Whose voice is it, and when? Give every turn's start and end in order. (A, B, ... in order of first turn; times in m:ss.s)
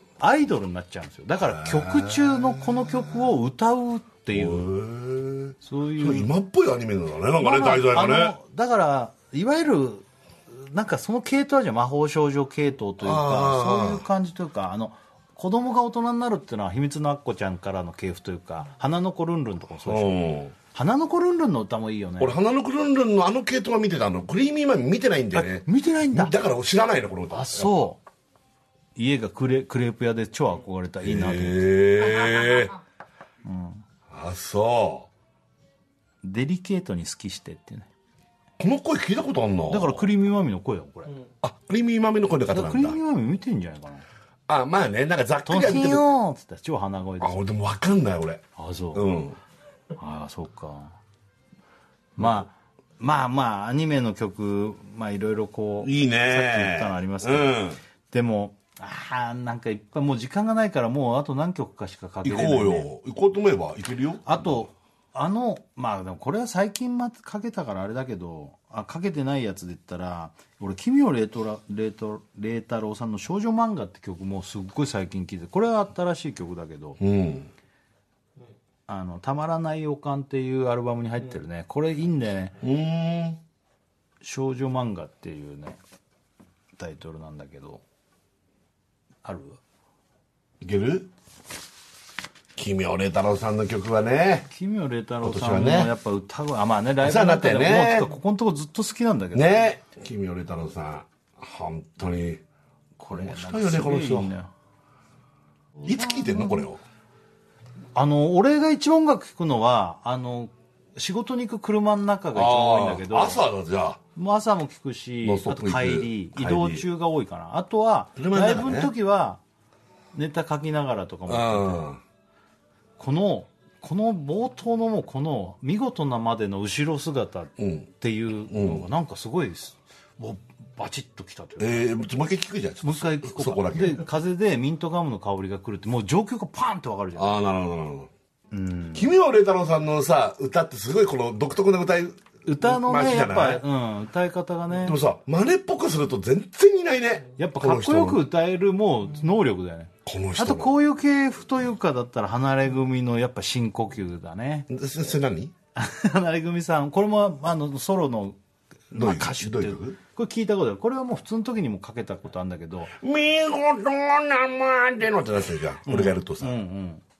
0:00.2-0:04.7 A
0:01.4-0:03.2 B
0:04.3-0:08.4 B
0:05.6-0:06.3 A
0:07.4-0:20.1 A
0:13.0-0:14.0 B
0:19.9-0:20.6 B
0:20.7-0:22.4 A
0:22.2-0:27.9 B
0:25.3-0:26.4 A
0:27.3-0:28.0 A
0:29.0-0:31.6 A
0:31.0-0:32.8 B
0:33.4-0:33.8 A
0:34.1-0:35.1 B
0:36.2-0:37.9 A
0:38.6-0:40.1 B
0:39.7-0:41.2 A
0:41.4-0:43.0 B
0:42.5-0:44.0 A
0:44.5-0:46.1 B
0:45.5-0:47.4 A
0:47.2-0:49.4 B
0:48.6-0:49.1 A
0:50.0-0:51.0 A
0:52.2-1:02.9 A
0:55.8-0:57.8 B
1:02.2-1:04.6 B
1:04.2-1:17.0 A
1:17.0-1:17.5 B
1:18.9-1:22.6 A
1:22.6-1:23.4 B
1:24.2-1:25.8 A
1:26.8-1:27.8 A
1:29.2-1:29.6 A
1:30.6-1:31.1 B
1:32.6-1:34.5 B
1:34.5-1:39.7 A
1:35.2-1:35.9 B
1:37.0-1:38.1 B
1:39.4-1:42.4 B
1:43.0-1:44.5 A
1:43.1-1:44.3 B
1:45.8-1:46.8 B
1:46.2-1:46.5 A
1:48.0-1:53.4 A
1:52.3-1:54.0 B
1:54.2-1:59.4 A
1:55.2-1:56.9 B
1:58.2-1:58.9 B
2:00.1-2:01.9 A
2:01.3-2:02.0 B
2:03.0-2:11.8 A
2:07.6-2:07.9 B
2:08.5-2:08.8 B
2:11.6-2:14.0 B
2:12.8-2:17.4 A
2:17.2-2:18.1 B
2:18.5-2:19.1 A
2:18.9-2:23.6 B
2:22.5-2:25.0 A
2:24.8-2:28.2 B
2:27.4-2:34.7 A
2:30.0-2:30.8 B
2:34.7-2:35.5 B
2:35.8-2:38.4 A
2:38.9-2:42.9 A
2:38.9-2:40.0 B
2:43.0-2:46.6 B
2:45.9-2:47.0 A